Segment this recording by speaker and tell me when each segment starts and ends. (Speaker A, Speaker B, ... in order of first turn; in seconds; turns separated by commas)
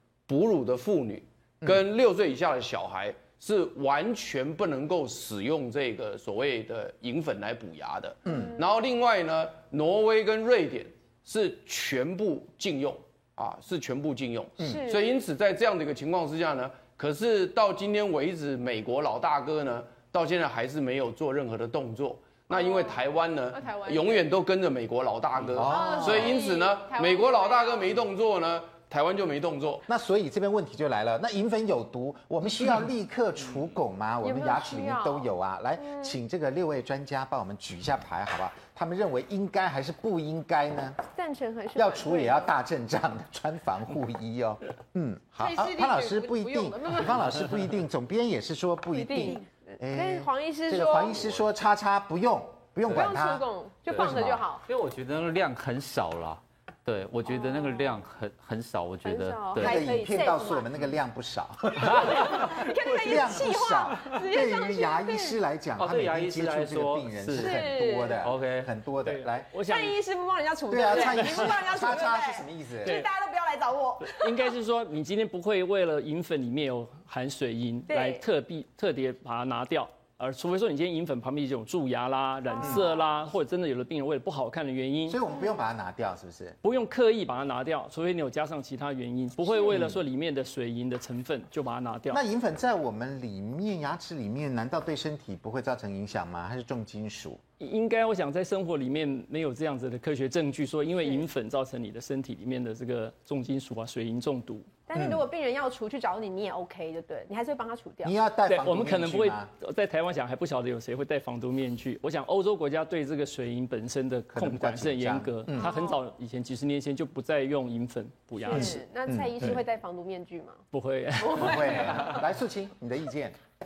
Speaker A: 0.3-29.8, Speaker B: 8.2-8.5, Speaker C: 14.6-15.1, Speaker C: 22.5-23.0, Speaker C: 23.5-24.3, Speaker B: 25.5-26.4, Speaker C: 25.6-27.9, Speaker B: 29.9-41.0, Speaker C: 34.2-35.3, Speaker C: 35.8-36.1, Speaker C: 41.1-42.5, Speaker B: 41.7-53.5, Speaker C: 45.4-47.5, Speaker C: 48.9-51.4, Speaker C: 52.9-54.6, Speaker D: 53.9-60.0, Speaker C: 57.3-57.8, Speaker C: 59.0-60.7, Speaker B: 59.5-69.5, Speaker C: 61.9-65.4, Speaker D: 65.8-67.7, Speaker C: 67.4-68.2, Speaker D: 68.2-68.7, Speaker E: 69.0-70.0, Speaker C: 69.6-74.5, Speaker B: 70.7-73.0, Speaker E: 70.9-71.5, Speaker E: 72.8-73.1, Speaker E: 74.0-85.2, Speaker C: 77.9-78.2, Speaker B: 82.6-82.8, Speaker B: 85.1-86.6, Speaker E: 86.6-92.2, Speaker B: 89.7-90.0, Speaker B: 92.1-97.4, Speaker E: 97.6-104.7, Speaker C: 104.9-108.2, Speaker B: 104.9-105.3, Speaker B: 108.0-109.5, Speaker E: 108.5-118.8, Speaker B: 114.3-115.7, Speaker C: 115.6-116.0, Speaker C: 118.4-120.6, Speaker B: 118.5-119.3, Speaker E: 120.7-122.2, Speaker C: 121.2-122.0, Speaker B: 121.3-123.4